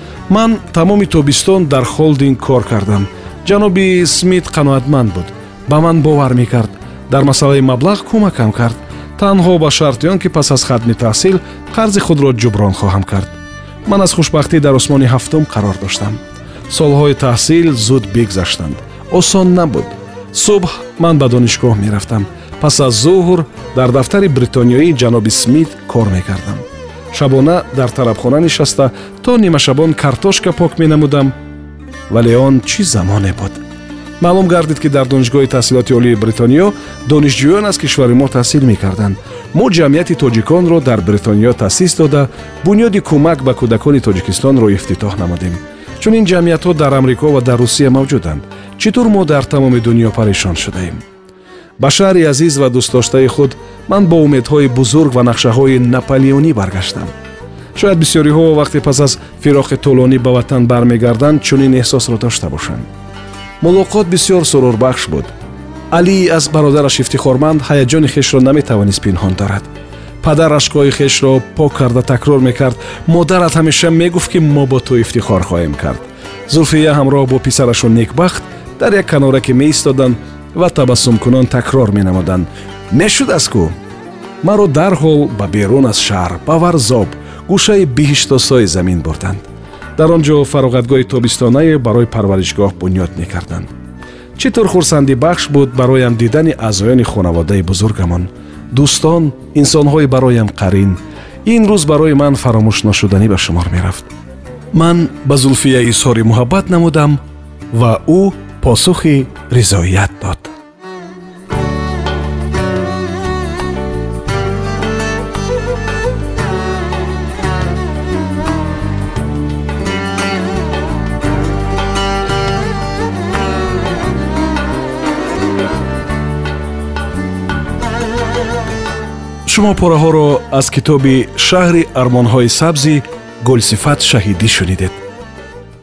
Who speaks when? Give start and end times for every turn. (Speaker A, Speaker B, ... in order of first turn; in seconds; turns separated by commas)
Speaker A: 0.3-31.4, Speaker A: 32.1-33.6, Speaker A: 34.2-51.0, Speaker A: 51.8-57.1, Speaker A: 57.8-62.9, Speaker A: 63.6-65.3, Speaker A: 65.9-69.7, Speaker A: 70.2-83.7, Speaker A: 84.4-89.5, Speaker A: 90.0-93.7, Speaker A: 94.4-104.1, Speaker A: 104.7-107.2, Speaker A: 107.7-110.5, Speaker A: 129.5-135.0